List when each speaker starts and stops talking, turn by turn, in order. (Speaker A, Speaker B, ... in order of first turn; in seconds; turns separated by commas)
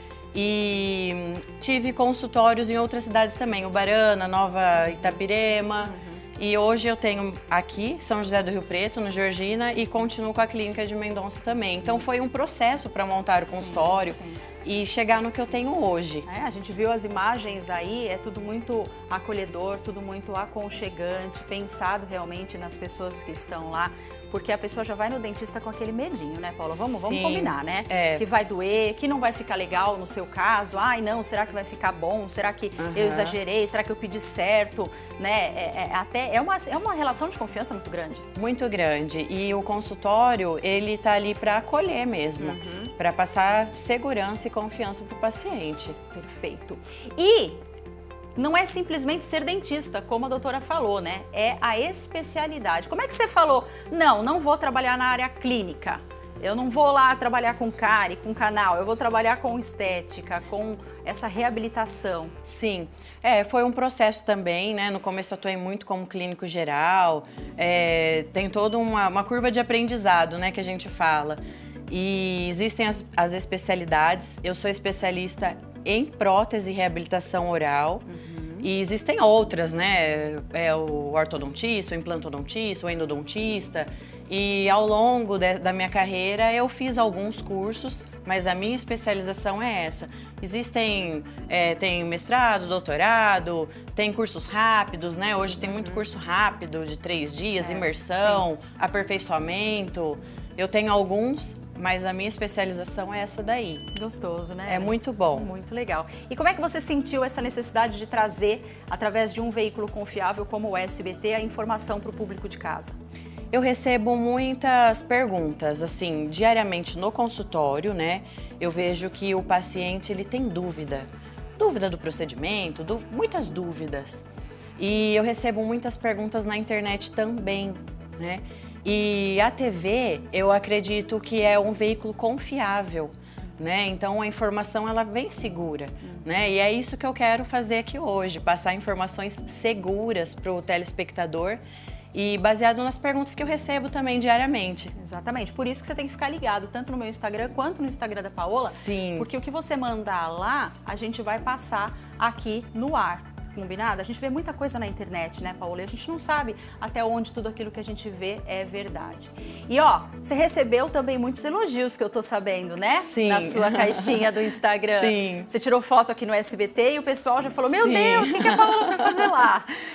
Speaker A: 0.3-16.2, Speaker B: 5.8-6.2, Speaker B: 13.5-14.4, Speaker B: 16.2-38.2, Speaker A: 26.8-28.2, Speaker A: 32.8-33.4, Speaker A: 38.4-46.0, Speaker B: 42.4-42.9, Speaker B: 46.1-47.6, Speaker B: 48.4-62.4, Speaker A: 62.4-78.1, Speaker B: 78.1-78.7, Speaker A: 78.6-103.9, Speaker B: 95.6-96.0, Speaker B: 97.6-98.5, Speaker B: 103.9-113.0, Speaker A: 104.7-105.5, Speaker A: 113.5-124.2, Speaker A: 124.8-141.6, Speaker A: 142.1-144.9, Speaker B: 144.9-169.7, Speaker A: 148.7-149.3, Speaker A: 163.0-164.3, Speaker A: 164.9-165.5, Speaker A: 167.7-169.5